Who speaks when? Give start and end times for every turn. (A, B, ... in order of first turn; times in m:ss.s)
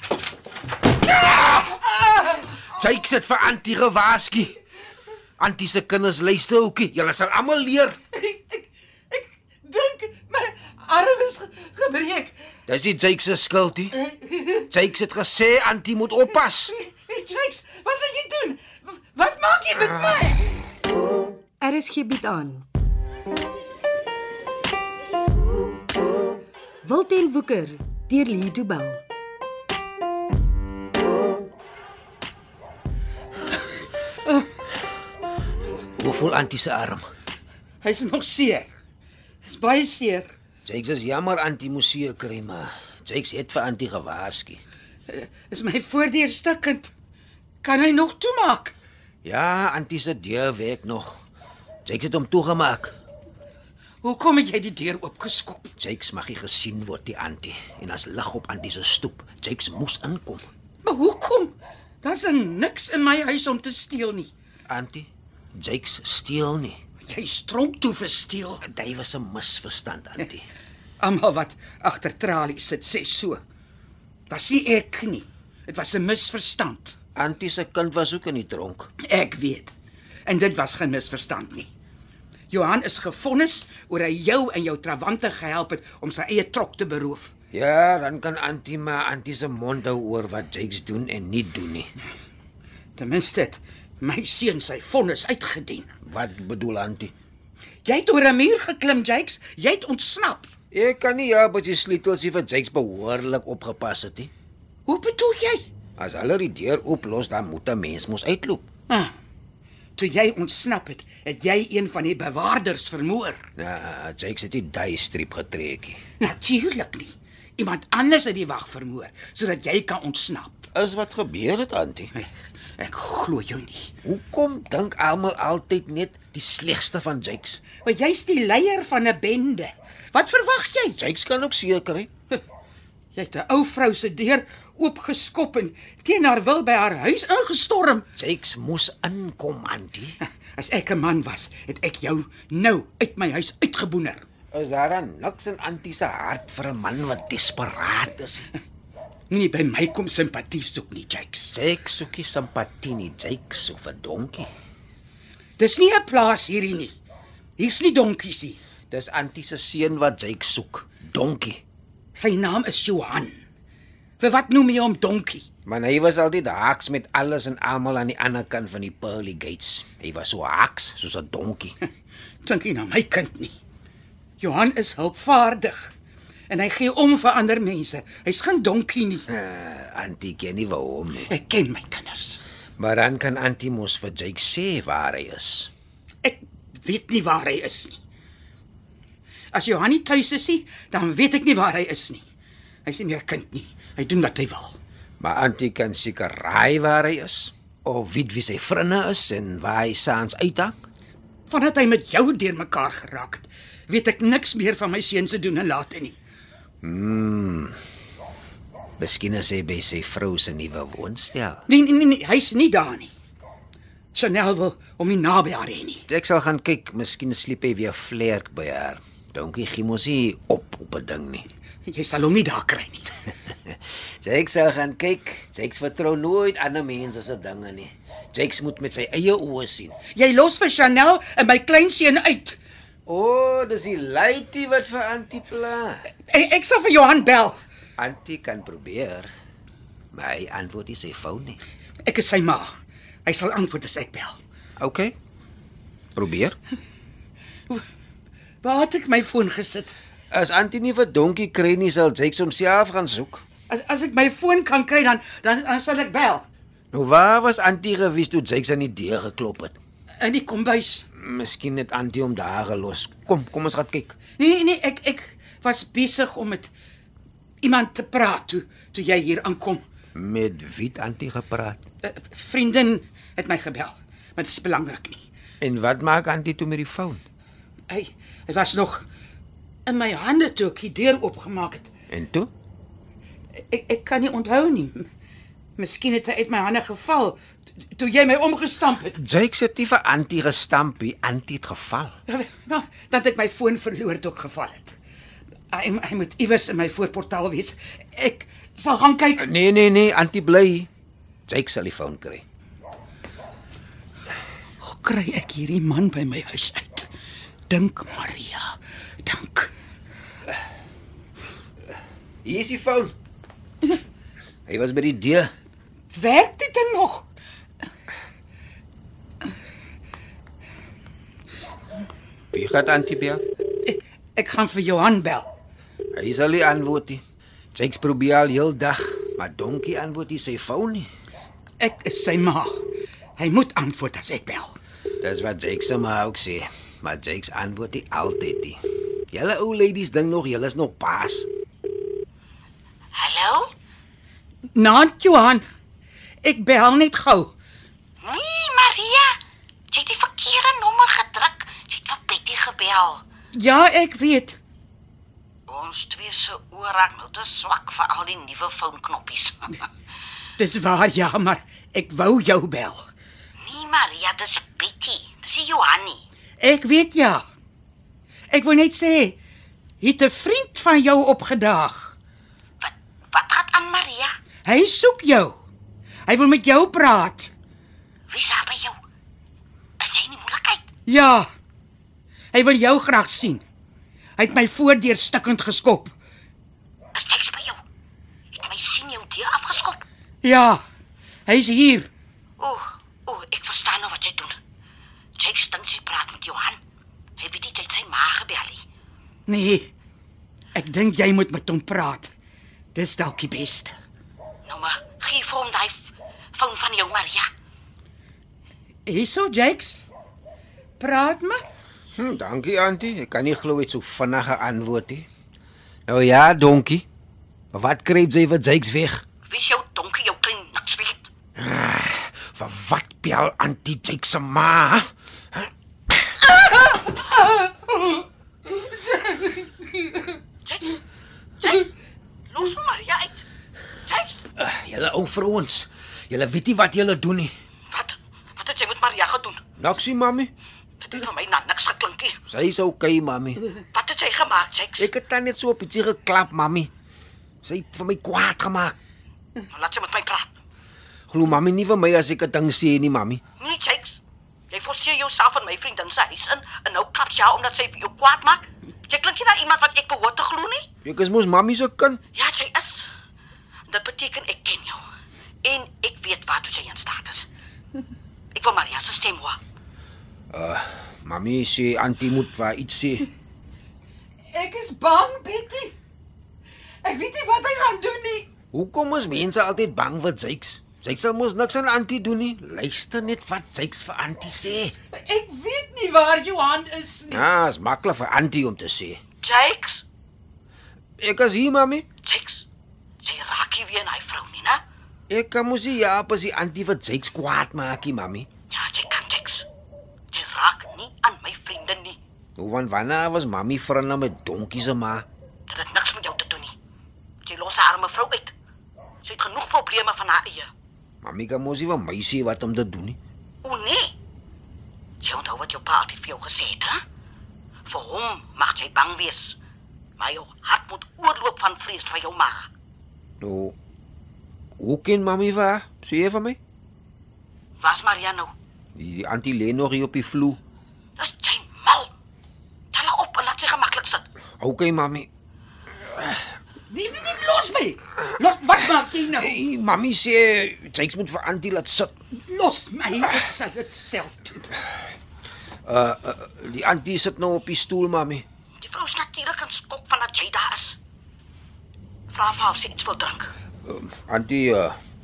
0:02.6-0:04.6 A
0:05.4-0:08.0 A
0:08.1-0:12.3 B
0:12.7-0:14.0 A
0:14.0-0:14.6 B
0:14.7-0:16.7 A
0:16.7-0:20.6 B
0:21.6-0:22.7 C
0:26.8-0:29.0 C
0:36.0-0:37.0 A
0:37.8-0:38.7 B
0:39.4-0:40.3 B
0:40.7-0:44.6 A
0:45.1-0:46.9 B
0:47.6-0:48.7 B
0:49.2-0:51.2 A
0:51.9-0:52.9 A
0:54.0-0:55.7 B
0:55.8-1:00.5 A
1:00.8-1:04.3 B
1:04.7-1:06.8 A
1:07.0-1:08.6 B
1:08.6-1:10.4 A
1:11.0-1:13.4 B
1:14.3-1:16.9 B
1:17.2-1:18.9 A
1:19.0-1:19.7 B
1:20.2-1:21.7 B
1:22.5-1:27.3 B
1:27.5-1:31.9 A
1:33.0-1:35.9 B
1:36.0-1:37.1 A
1:37.8-1:40.5 B
1:40.7-1:44.3 A
1:44.9-1:45.7 B
1:46.0-1:48.6 A
1:48.9-1:49.1 B
1:50.0-1:53.4 B
1:53.6-1:56.0 A
1:56.2-2:00.7 B
2:00.7-2:02.1 A
2:02.1-2:03.9 B
2:04.0-2:07.6 A
2:07.8-2:11.0 B
2:11.0-2:12.1 A
2:13.1-2:18.1 B
2:18.2-2:20.2 A
2:20.5-2:24.2 B
2:24.5-2:28.5 A
2:29.3-2:31.5 B
2:31.5-2:34.5 A
2:35.6-2:36.9 B
2:37.6-2:38.6 B
2:38.9-2:41.6 A
2:42.1-2:43.4 B
2:44.2-2:45.4 B
2:45.7-2:51.8 A
2:52.4-2:53.5 B
2:54.4-2:55.9 B
2:56.5-2:59.3 B
2:59.3-3:01.3 A
3:01.3-3:02.4 B
3:02.8-3:05.7 A
3:06.2-3:08.0 B
3:09.5-3:12.2 B
3:12.8-3:14.8 B
3:15.2-3:20.8 A
3:21.5-3:26.2 B
3:26.8-3:27.8 A
3:29.0-3:31.6 A
3:31.7-3:33.1 B
3:34.1-3:36.1 B
3:36.1-3:41.5 A
3:41.9-3:43.2 B
3:43.6-3:50.0 A
3:50.1-3:52.6 B
3:53.1-3:56.1 A
3:56.3-3:57.6 B
3:58.0-3:59.3 A
4:00.1-4:01.6 A
4:02.0-4:02.7 B
4:03.2-4:04.4 B
4:04.8-4:05.2 A
4:06.2-4:06.6 A
4:08.6-4:09.9 B
4:10.3-4:13.4 A
4:13.7-4:16.4 B
4:16.9-4:19.8 A
4:20.2-4:21.1 B
4:21.1-4:24.2 A
4:24.4-4:26.7 B
4:27.6-4:29.8 B
4:30.2-4:31.8 A
4:32.0-4:35.2 B
4:35.6-4:37.2 A
4:37.9-4:39.0 B
4:39.9-4:41.9 B
4:42.1-4:42.5 A
4:43.7-4:45.1 B
4:45.8-4:47.4 B
4:48.0-4:49.2 B
4:49.1-4:52.2 A
4:52.3-4:55.0 B
4:55.7-4:59.5 B
4:59.4-5:00.9 A
5:01.5-5:02.4 A
5:04.8-5:07.1 B
5:07.7-5:09.7 B
5:12.4-5:13.1 A
5:14.7-5:15.5 A
5:16.1-5:17.3 B
5:22.5-5:23.4 A
5:23.8-5:25.6 B
5:26.2-5:27.2 A
5:27.8-5:31.1 A
5:31.8-5:32.8 B
5:33.4-5:34.8 B
5:35.2-5:38.8 A
5:39.3-5:41.5 A
5:43.1-5:43.7 D
5:44.7-5:45.6 B
5:46.4-5:47.6 B
5:48.2-5:49.4 D
5:49.9-5:53.2 D
5:53.5-5:54.6 B
5:55.7-5:59.8 D
6:00.6-6:03.1 B
6:03.6-6:06.2 D
6:06.6-6:07.4 B
6:08.5-6:09.4 B
6:10.0-6:12.2 B
6:12.8-6:14.3 D
6:14.6-6:15.6 B
6:16.3-6:17.5 B
6:18.3-6:19.0 D
6:20.0-6:20.8 D
6:21.1-6:21.5 B
6:22.5-6:23.6 B
6:24.4-6:26.1 B
6:27.1-6:27.8 D
6:28.5-6:30.0 D
6:30.4-6:30.8 B
6:31.5-6:32.1 B
6:32.6-6:34.6 D
6:35.4-6:36.8 D
6:37.4-6:38.8 D
6:39.5-6:39.9 B
6:40.8-6:42.3 B
6:43.0-6:43.9 B
6:44.7-6:47.5 D
6:49.1-6:50.1 B
6:51.0-6:51.6 B
6:52.2-6:55.3 A
6:56.1-6:57.1 A
6:57.7-6:59.2 A
6:59.5-7:01.3 D
7:01.6-7:06.2 A
7:09.2-7:09.7 B
7:10.7-7:11.0 D
7:11.6-7:11.9 D
7:12.5-7:13.4 D
7:14.1-7:14.4 D
7:14.6-7:17.5 A
7:17.9-7:19.6 D
7:19.8-7:20.5 A
7:21.0-7:22.4 D
7:22.5-7:23.6 A
7:23.9-7:25.1 D
7:25.0-7:26.9 A
7:27.6-7:29.0 A
7:29.7-7:30.6 D
7:31.3-7:33.4 A
7:33.6-7:34.2 D
7:34.7-7:40.9 D
7:41.0-7:42.2 A
7:42.4-7:43.1 D
7:43.9-7:45.0 D
7:45.6-7:47.5 D
7:48.5-7:49.6 D
7:50.5-7:53.3 A
7:54.5-7:56.0 B
7:57.0-7:58.5 B
7:58.7-8:05.0 A
8:05.1-8:07.5 B
8:07.3-8:09.2 A
8:09.4-8:10.0 D
8:11.2-8:12.1 A
8:12.2-8:12.6 D
8:13.2-8:14.8 D
8:15.3-8:18.5 A
8:18.7-8:19.7 D
8:20.3-8:22.2 D
8:22.6-8:25.2 A
8:25.7-8:26.7 D
8:27.4-8:28.5 D
8:29.2-8:30.7 D
8:31.2-8:33.2 A
8:33.6-8:34.1 D
8:35.2-8:37.0 D
8:37.9-8:39.6 D
8:40.2-8:42.7 D
8:43.4-8:43.7 A
8:44.8-8:46.6 A
8:47.8-8:48.5 D
8:49.0-8:50.6 A
8:51.2-8:52.1 D
8:52.9-8:54.2 D
8:54.6-8:55.3 A
8:56.2-8:56.4 A
8:56.9-8:59.6 B
8:59.3-9:02.1 A
9:02.4-9:04.8 B
9:05.9-9:08.4 A
9:08.8-9:11.0 D
9:12.3-9:13.5 D
9:13.8-9:15.0 A